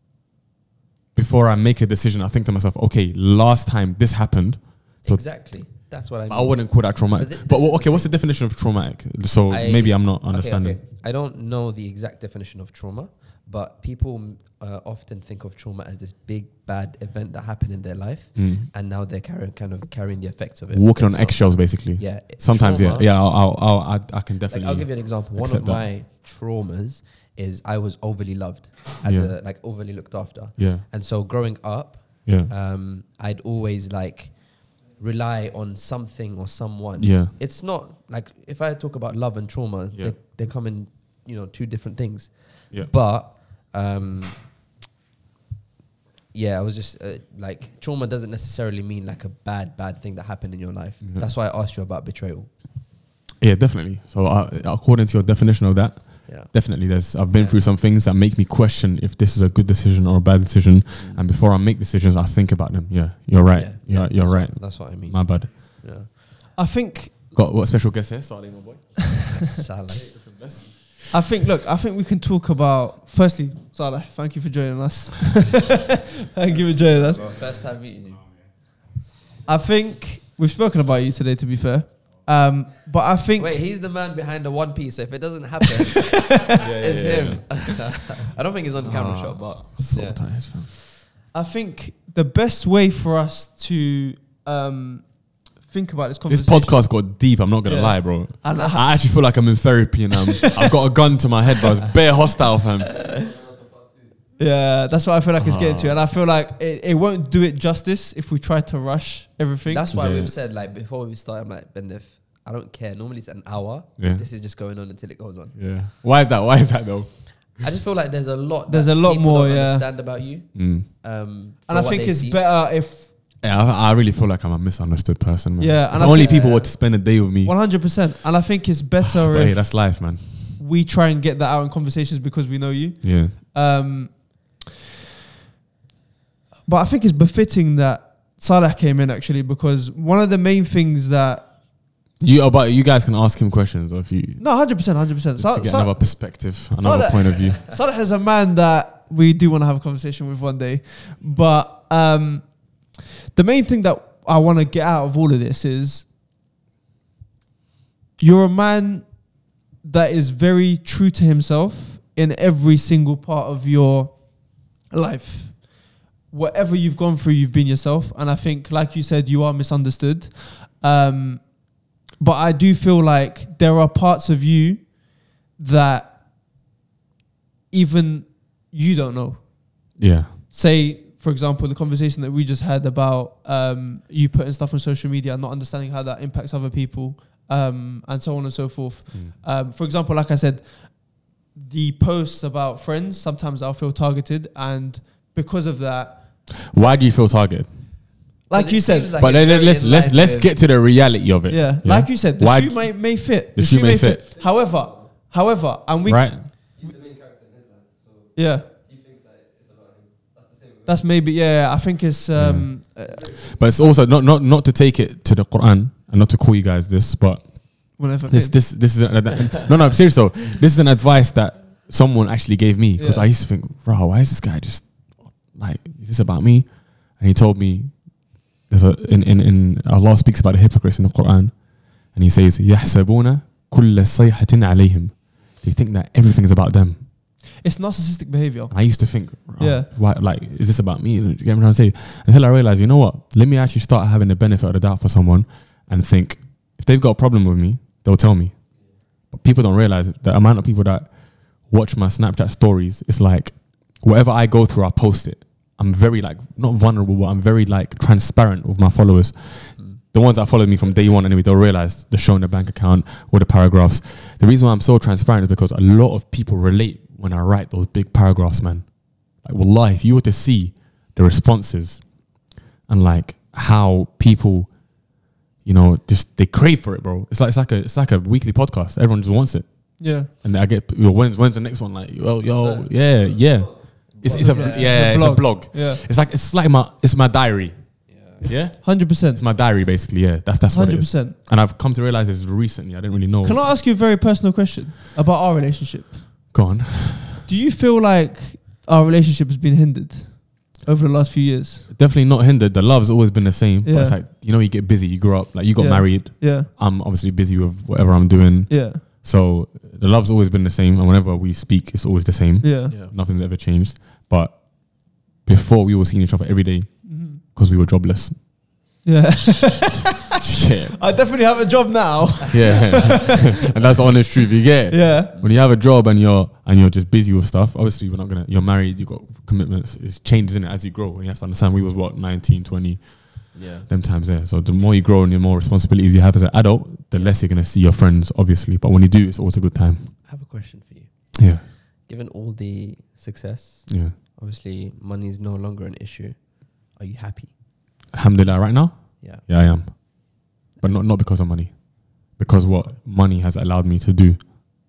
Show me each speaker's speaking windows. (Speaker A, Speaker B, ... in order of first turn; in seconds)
Speaker A: 1.1-10.8, 18.3-18.7, 20.7-25.8, 29.0-29.3, 30.6-30.8, 32.2-32.5, 37.0-37.3, 53.4-65.8, 67.3-69.2, 70.0-71.1, 86.6-87.7, 88.8-90.7, 96.3-103.1, 105.3-106.0, 109.9-110.3, 114.0-114.2, 115.5-117.6, 120.5-120.9, 123.4-128.1, 129.1-130.6, 133.0-133.3, 142.2-147.6, 180.0-180.3, 196.6-197.7, 199.2-204.2, 206.0-206.5, 212.3-237.0, 238.7-293.7, 296.5-297.4, 301.9-318.4, 320.4-321.0, 322.5-340.1, 341.4-341.6, 343.9-344.1, 348.1-354.5
Speaker B: 5.0-8.1, 9.5-23.1, 24.5-44.4, 46.3-52.5, 56.2-57.6, 61.0-61.2, 63.5-66.1, 69.3-70.1, 77.1-78.2, 83.3-90.6, 109.7-115.6, 117.5-122.4, 126.0-126.7, 198.5-200.5, 282.5-282.9, 284.1-285.0, 288.1-288.5, 312.9-313.1, 333.5-333.9, 337.1-337.4, 340.2-347.5, 349.2-350.2, 350.8-351.0, 352.6-352.9
Speaker C: 66.5-67.2, 71.1-77.2, 79.5-83.6, 91.3-99.2, 100.4-100.7, 104.4-109.8, 118.7-119.8, 121.7-123.1, 125.6-134.6, 136.7-141.5, 144.4-156.1, 158.2-176.2, 177.7-180.0, 180.5-196.2, 198.5-199.1, 201.5-206.9, 208.3-208.7, 210.8-213.4, 218.0-218.7, 223.0-223.3, 237.6-239.9, 280.0-280.3, 284.2-286.0, 288.8-289.4, 290.7-291.4, 293.4-296.4, 297.4-301.9, 303.8-304.2, 305.8-306.7, 308.7-309.0, 312.6-312.9, 317.0-317.4, 319.0-320.3, 320.9-323.5, 324.9-325.3